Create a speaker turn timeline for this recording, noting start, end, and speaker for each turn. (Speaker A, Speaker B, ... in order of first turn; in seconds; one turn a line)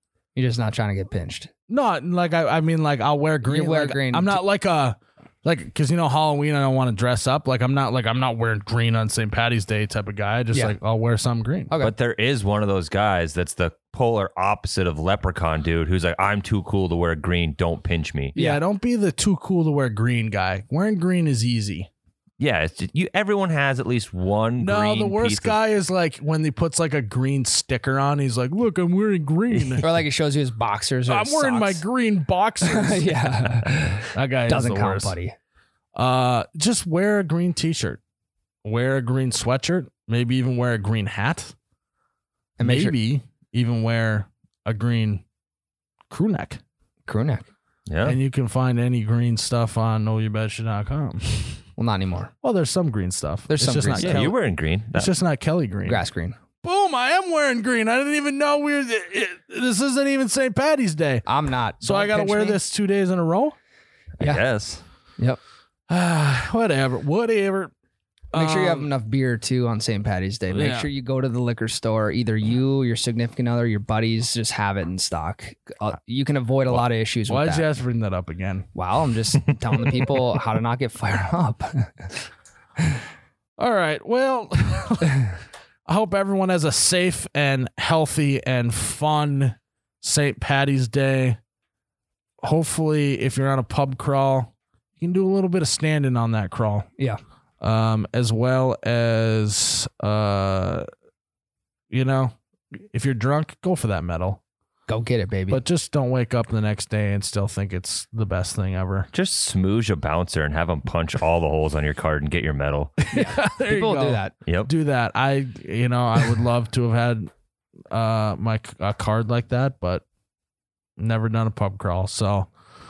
Speaker A: 0.3-1.5
Speaker B: 1.7-11.7
Speaker A: 3.4-4.4
Speaker C: 11.8-18.3
Speaker A: 18.3-18.6
Speaker B: 18.4-21.9
Speaker C: 22.4-25.6
Speaker B: 24.6-29.8
Speaker A: 29.8-31.8
Speaker B: 31.1-35.1
Speaker A: 32.6-35.3
Speaker B: 35.9-38.0
Speaker B: 38.6-41.5
Speaker A: 42.6-42.9
Speaker B: 42.6-45.2
Speaker B: 46.1-46.6
Speaker A: 47.1-47.5
Speaker C: 47.9-48.2
Speaker B: 48.0-51.6
Speaker A: 51.8-52.3
Speaker B: 52.4-54.3
Speaker A: 53.5-54.3
Speaker C: 54.0-55.1
Speaker B: 54.9-56.0
Speaker A: 55.8-56.4
Speaker B: 56.6-61.2
Speaker A: 61.3-62.6
Speaker B: 61.8-63.5
Speaker C: 64.2-64.8
Speaker B: 65.9-67.7
Speaker B: 68.3-68.9
Speaker A: 68.3-77.7
Speaker B: 70.5-70.9
Speaker B: 77.3-78.7
Speaker A: 78.7-82.0
Speaker B: 83.6-85.3
Speaker B: 85.9-91.4
Speaker B: 92.4-96.9
Speaker B: 97.6-100.9
Speaker B: 101.9-102.3
Speaker B: 102.9-104.4
Speaker A: 104.9-105.6
Speaker B: 105.5-109.1
Speaker C: 109.1-112.9
Speaker B: 113.0-117.3
Speaker A: 113.1-114.3
Speaker C: 114.4-114.7
Speaker B: 117.9-120.0
Speaker B: 121.0-122.5